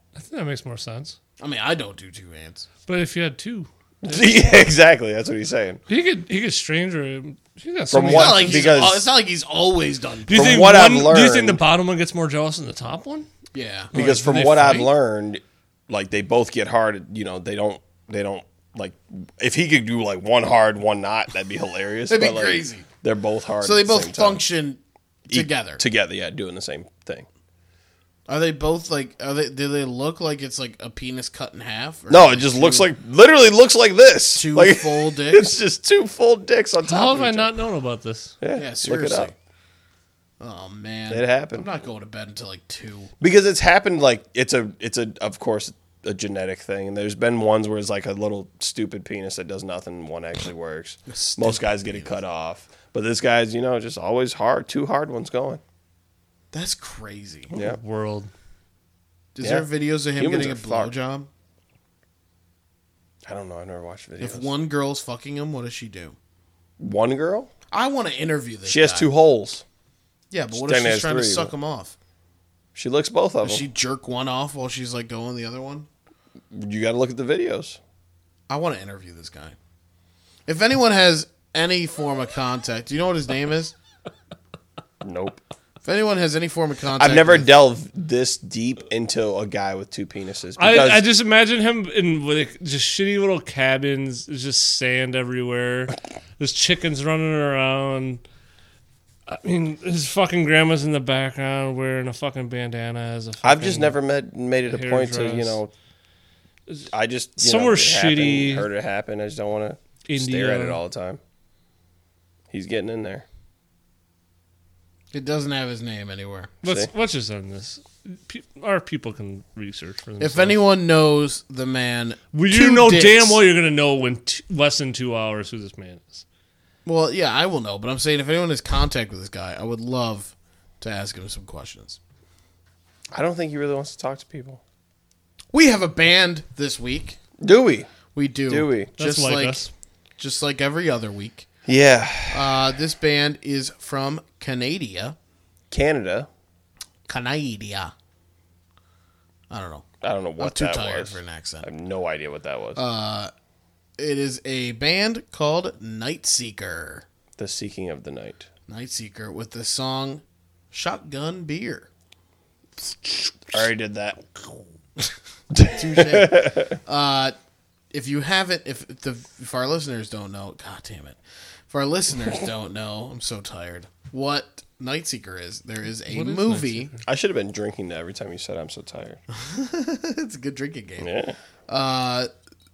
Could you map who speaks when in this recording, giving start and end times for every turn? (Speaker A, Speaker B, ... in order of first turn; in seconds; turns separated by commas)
Speaker A: 0.1-1.2, Speaker B: 1.4-2.7, Speaker A: 2.9-4.3, Speaker C: 4.0-5.8, Speaker A: 5.9-8.7, Speaker C: 7.9-9.1, Speaker B: 8.1-10.7, Speaker A: 10.3-13.3, Speaker C: 10.3-11.6, Speaker B: 13.5-13.9, Speaker C: 13.9-24.4, Speaker A: 13.9-14.9, Speaker B: 22.1-22.9, Speaker B: 23.6-25.8, Speaker C: 25.3-27.3, Speaker B: 28.3-32.9, Speaker C: 32.1-37.5, Speaker B: 34.4-35.5, Speaker A: 36.8-38.4, Speaker C: 38.4-39.3, Speaker B: 38.5-39.4, Speaker B: 40.4-43.1, Speaker C: 41.1-41.7, Speaker C: 43.2-55.6, Speaker B: 51.1-52.1, Speaker B: 56.5-57.5, Speaker C: 57.5-57.8, Speaker A: 57.5-58.3, Speaker B: 59.4-61.3, Speaker C: 59.4-60.9, Speaker C: 63.3-64.5, Speaker B: 64.2-66.2, Speaker C: 66.8-67.5, Speaker B: 67.7-69.1, Speaker C: 68.7-69.7, Speaker B: 70.3-72.0, Speaker C: 70.5-71.5, Speaker C: 72.8-73.6, Speaker B: 73.5-75.9, Speaker C: 76.5-77.8, Speaker B: 78.5-79.5, Speaker B: 80.5-83.8, Speaker C: 85.0-85.4, Speaker B: 85.8-87.5, Speaker C: 87.0-91.1, Speaker A: 90.6-98.2, Speaker A: 99.3-104.0, Speaker C: 103.4-105.7, Speaker A: 104.7-105.6, Speaker A: 106.7-108.7, Speaker C: 106.9-111.2, Speaker A: 110.1-110.8, Speaker C: 112.5-113.2, Speaker B: 115.1-116.6, Speaker C: 116.6-116.9, Speaker A: 116.6-120.6, Speaker B: 120.2-123.4, Speaker A: 122.3-126.3, Speaker B: 126.8-132.0, Speaker C: 133.1-134.6, Speaker B: 135.5-137.2, Speaker C: 137.4-137.9, Speaker B: 138.1-139.7, Speaker C: 138.5-138.9, Speaker A: 139.0-139.7, Speaker B: 140.2-141.5, Speaker C: 141.7-142.6, Speaker B: 142.3-145.2, Speaker C: 145.7-146.3, Speaker B: 147.1-147.9, Speaker B: 149.5-149.9, Speaker C: 150.0-152.8, Speaker B: 150.4-151.7, Speaker B: 152.8-153.3, Speaker B: 154.0-157.1, Speaker C: 157.4-158.5, Speaker B: 158.7-161.9, Speaker C: 163.5-164.2, Speaker C: 165.5-166.8, Speaker B: 165.6-167.3, Speaker B: 167.9-171.2, Speaker B: 171.7-176.9, Speaker A: 176.1-177.0, Speaker C: 177.0-179.2, Speaker B: 179.3-181.1, Speaker C: 181.0-181.4, Speaker B: 181.7-182.3